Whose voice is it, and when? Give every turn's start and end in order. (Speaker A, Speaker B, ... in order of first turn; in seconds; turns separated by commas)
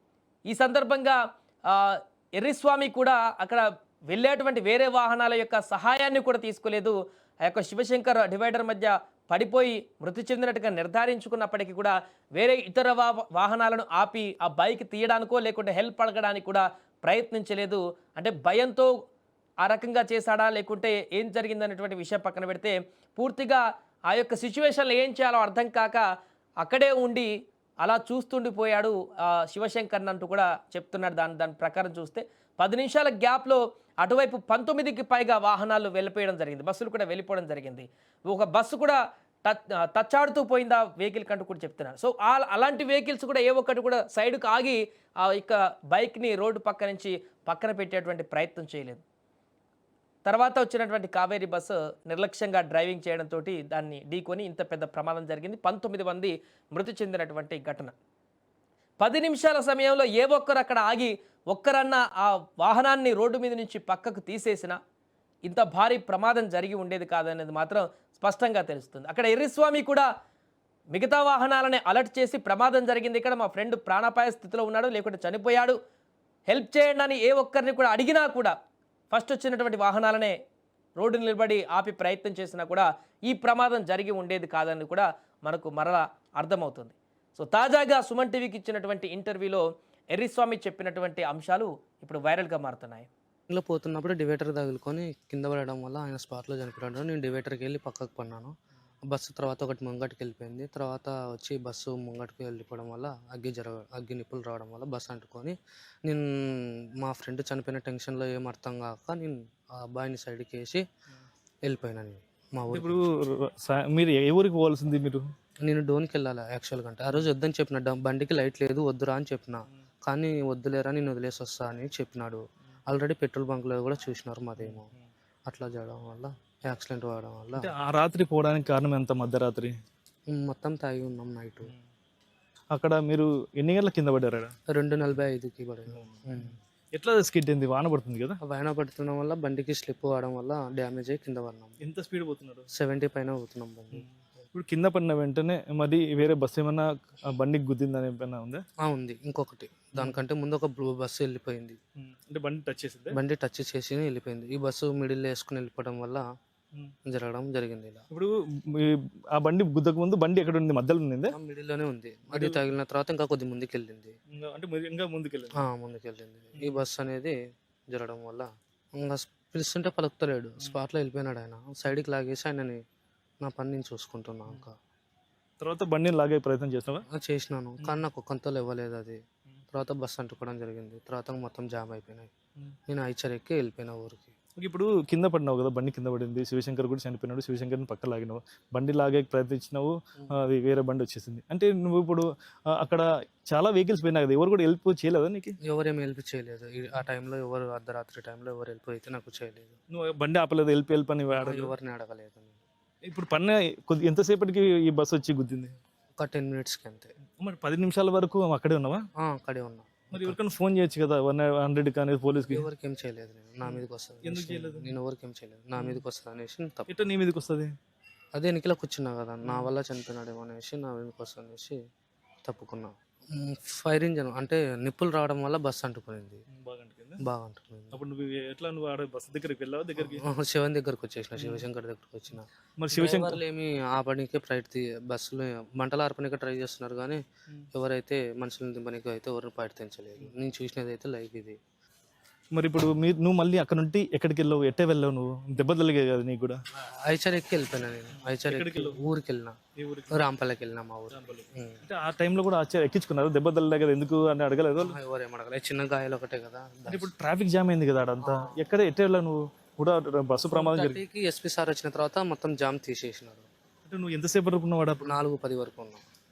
Speaker A: 0.5-1.2, Speaker A: 1.7-18.9, Speaker A: 19.6-26.0, Speaker A: 26.6-27.3, Speaker A: 27.8-49.0, Speaker A: 50.2-57.9, Speaker A: 59.0-64.8, Speaker A: 65.5-70.1, Speaker A: 70.9-75.8, Speaker A: 76.5-78.5, Speaker A: 79.1-80.3, Speaker A: 81.0-89.6, Speaker A: 90.2-93.1, Speaker B: 93.5-98.5, Speaker B: 99.1-110.8, Speaker B: 111.7-113.0, Speaker C: 112.7-115.3, Speaker B: 115.7-124.9, Speaker C: 124.6-125.0, Speaker B: 125.5-127.7, Speaker C: 127.6-129.7, Speaker B: 130.3-131.7, Speaker C: 132.7-134.5, Speaker B: 134.7-136.6, Speaker C: 136.0-138.4, Speaker B: 138.4-141.8, Speaker C: 141.8-142.7, Speaker B: 142.7-144.1, Speaker C: 144.0-148.6, Speaker B: 148.8-151.8, Speaker C: 152.0-153.2, Speaker B: 153.1-156.2, Speaker B: 157.1-158.0, Speaker C: 158.1-161.3, Speaker B: 161.3-164.2, Speaker C: 162.3-162.6, Speaker C: 164.3-165.6, Speaker B: 165.6-167.3, Speaker B: 167.9-172.8, Speaker B: 173.4-174.7, Speaker C: 175.6-177.0, Speaker B: 177.1-179.2, Speaker B: 179.7-182.3, Speaker B: 182.9-184.3, Speaker C: 184.6-192.2, Speaker C: 192.8-195.6, Speaker B: 195.7-199.8, Speaker C: 199.9-201.7, Speaker B: 201.3-202.6, Speaker C: 203.1-205.8, Speaker B: 206.2-207.1, Speaker C: 207.4-209.0, Speaker B: 209.2-210.4, Speaker C: 210.1-212.7, Speaker B: 212.5-216.9, Speaker C: 213.7-215.0, Speaker C: 216.9-217.7, Speaker B: 218.3-221.8, Speaker C: 219.5-219.7, Speaker B: 222.5-226.4, Speaker C: 226.5-227.2, Speaker B: 227.2-228.0, Speaker C: 227.9-230.2, Speaker B: 230.0-237.2, Speaker C: 231.4-231.7, Speaker C: 232.8-233.4, Speaker B: 237.7-241.6, Speaker C: 242.5-246.6, Speaker B: 247.1-249.6, Speaker C: 248.3-249.0, Speaker C: 249.8-250.2, Speaker B: 250.1-251.8, Speaker C: 251.1-255.0, Speaker B: 254.8-257.1, Speaker C: 256.9-261.0, Speaker B: 258.2-258.6, Speaker B: 260.5-263.5, Speaker C: 263.9-265.1, Speaker B: 265.0-266.0